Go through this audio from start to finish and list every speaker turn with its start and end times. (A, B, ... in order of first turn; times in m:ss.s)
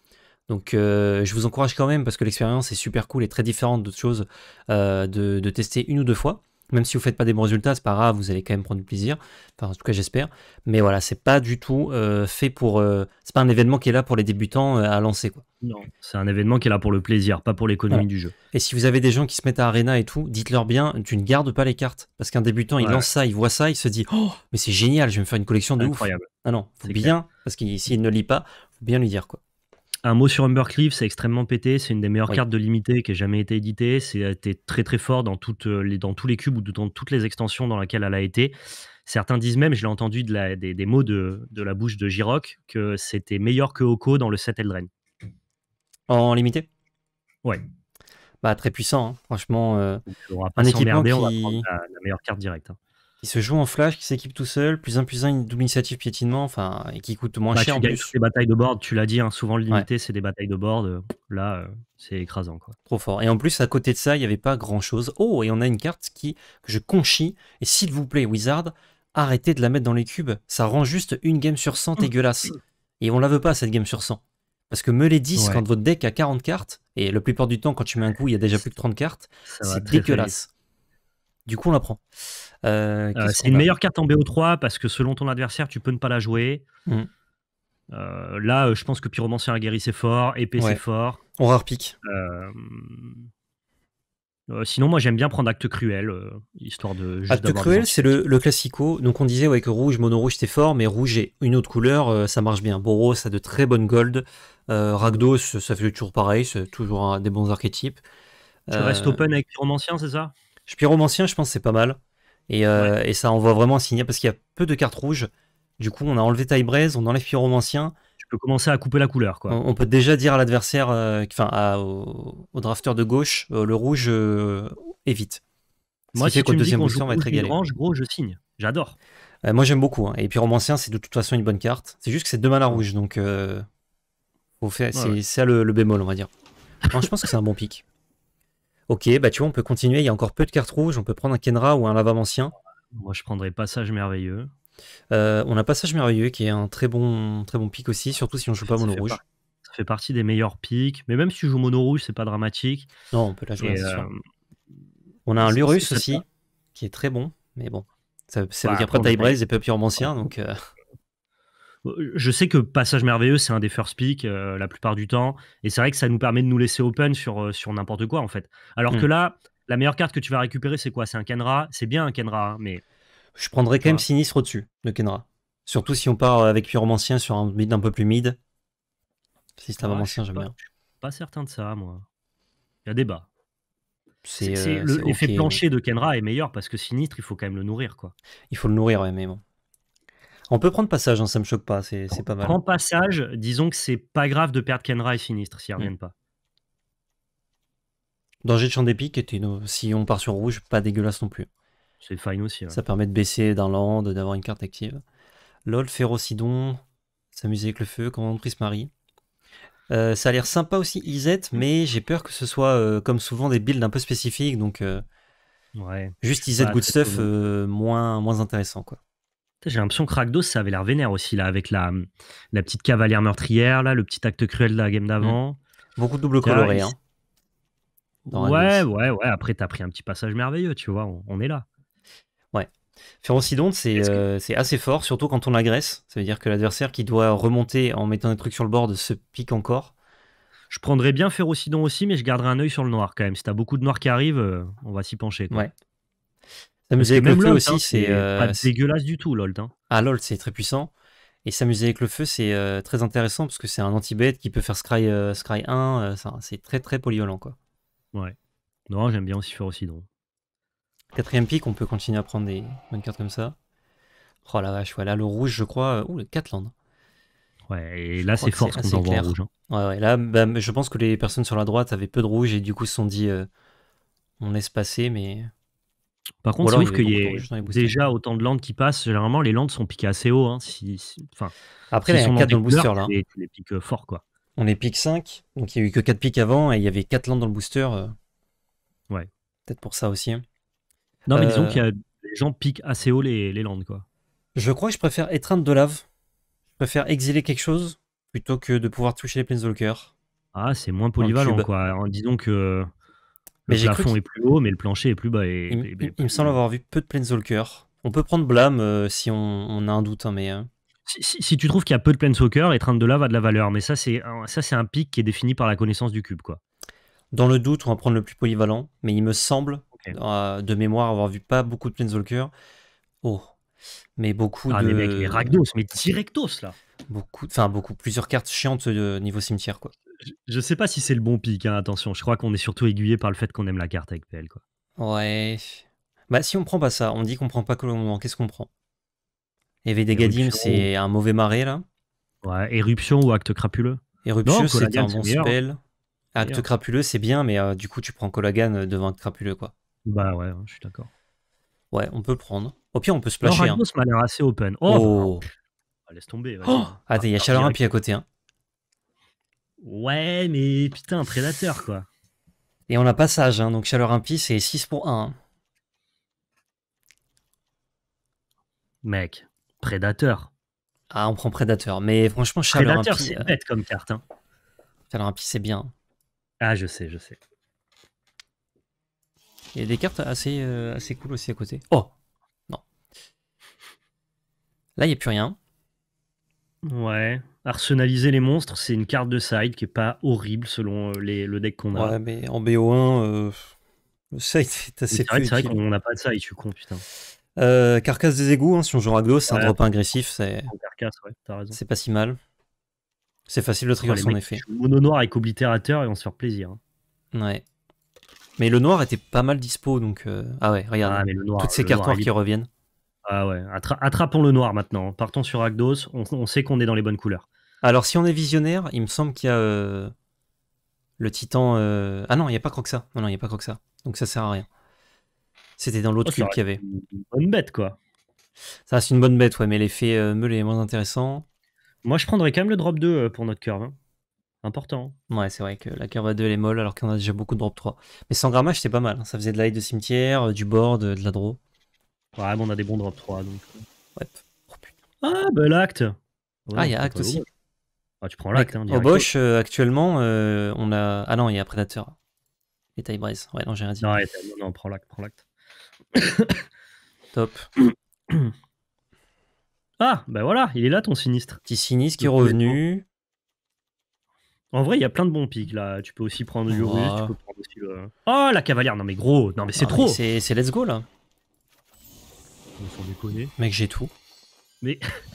0:00.5-0:15.4 A
0:15.6-0:18.3 B
0:17.9-0:29.4 A
0:22.8-0:23.1 B
0:25.8-0:26.3 B
0:26.8-0:27.1 B
0:30.0-0:44.9 B
0:46.1-0:46.7 A
0:48.4-0:50.0 A
0:50.1-0:52.8 B
0:50.6-0:51.6 A
0:53.2-0:58.1 A
0:57.5-1:02.8 B
1:02.9-1:20.5 A
1:15.4-1:15.6 B
1:19.5-1:20.4 B
1:21.4-1:22.0 A
1:22.6-1:23.7 A
1:23.1-1:26.6 B
1:27.9-1:31.2 B
1:31.4-1:32.0 A
1:32.0-1:33.3 B
1:34.5-1:38.2 B
1:37.3-1:48.0 A
1:48.7-1:49.2 A
1:48.7-1:50.3 B
1:50.7-1:58.0 A
1:58.2-1:59.6 B
1:59.5-2:05.4 A
2:06.1-2:09.0 B
2:06.2-2:07.5 A
2:09.4-2:13.6 A
2:14.6-2:16.3 A
2:16.9-2:17.8 A
2:18.9-2:22.5 A
2:22.9-2:24.5 B
2:25.1-2:29.2 A
2:28.6-2:32.9 B
2:33.1-2:34.1 A
2:33.6-2:34.2 B
2:35.3-2:40.6 A
2:35.4-2:36.2 B
2:38.6-2:39.4 B
2:41.8-2:52.8 B
2:53.4-2:58.4 A
2:59.6-3:00.5 A
2:59.8-3:02.0 B
3:02.8-3:03.3 B
3:04.2-3:05.6 A
3:04.4-3:08.1 B
3:08.5-3:09.4 A
3:10.5-3:12.6 A
3:12.1-3:16.1 B
3:18.4-3:21.5 A
3:22.0-3:22.8 B
3:22.7-3:25.0 A
3:25.6-3:26.8 A
3:27.3-3:28.9 A
3:29.9-3:35.0 A
3:35.8-3:37.3 B
3:36.2-3:39.0 A
3:39.6-3:45.6 B
3:46.0-3:47.0 A
3:46.4-3:46.9 B
3:48.2-3:51.6 B
3:48.3-3:48.8 A
3:53.2-3:59.9 A
3:54.0-3:54.2 B
4:00.7-4:05.7 B
4:06.9-4:08.6 A
4:07.0-4:09.7 B
4:09.9-4:10.9 A
4:11.4-4:17.6 A
4:18.9-4:20.1 B
4:21.1-4:23.6 A
4:24.4-4:26.7 A
4:27.7-4:29.5 B
4:28.3-4:33.5 A
4:34.4-4:35.5 A
4:36.4-4:41.5 B
4:36.6-4:38.0 A
4:41.9-4:43.1 A
4:42.1-4:44.2 B
4:44.6-4:48.1 A
4:49.7-4:50.4 A
4:51.3-4:51.8 A
4:51.3-4:54.0 B
4:54.5-4:56.1 A
4:56.8-5:00.1 A
5:00.5-5:02.9 B
5:01.2-5:01.7 A
5:03.7-5:06.6 B
5:03.7-5:04.1 A
5:05.7-5:10.7 A
5:11.1-5:16.6 B
5:17.3-5:22.5 A
5:23.2-5:23.5 A
5:24.2-5:25.6 A
5:24.7-5:26.8 B
5:27.1-5:29.9 A
5:30.2-5:34.6 B
5:35.0-5:38.7 A
5:39.8-5:41.8 A
5:40.1-5:40.9 B
5:42.4-5:45.6 B
5:44.2-5:45.8 A
5:46.3-5:49.7 A
5:46.4-5:46.6 B
5:50.0-5:51.1 B
5:51.9-5:53.8 A
5:53.4-5:55.4 B
5:54.9-5:55.4 A
5:56.1-5:57.8 B
5:56.7-5:58.2 A
5:59.8-6:02.1 B
6:02.9-6:05.4 A
6:09.0-6:10.5 B
6:11.1-6:13.5 A
6:12.7-6:14.2 B
6:15.1-6:15.9 A
6:16.6-6:17.4 B
6:19.7-6:22.1 A
6:25.0-6:25.6 A
6:26.8-6:32.2 B
6:31.9-6:33.7 A
6:34.3-6:35.8 A
6:35.1-6:37.0 B
6:37.6-6:40.7 A
6:39.5-6:39.7 B
6:40.7-6:41.8 B
6:41.7-6:42.4 A
6:43.5-6:44.6 A
6:44.0-6:46.8 B
6:47.3-6:47.6 A
6:48.6-6:52.7 A
6:51.0-6:52.3 B
6:53.2-6:57.4 B
6:57.8-7:00.1 A
7:01.2-7:04.7 A
7:05.8-7:06.8 A
7:06.2-7:08.0 B
7:08.9-7:11.4 A
7:12.0-7:14.0 B
7:14.6-7:15.2 B
7:15.3-7:21.6 A
7:22.4-7:23.8 B
7:24.2-7:24.9 A
7:25.2-7:27.4 B
7:26.8-7:27.4 A
7:28.2-7:29.3 B
7:28.5-7:32.2 A
7:33.0-7:34.1 A
7:34.0-7:35.4 B
7:36.1-7:36.6 B
7:37.3-7:37.7 A
7:40.0-7:41.6 B
7:41.7-7:43.0 A
7:42.2-7:42.8 B
7:44.7-7:50.2 B
7:46.7-7:47.3 A
7:49.8-7:51.0 A
7:52.8-7:53.5 B
7:53.6-7:54.1 A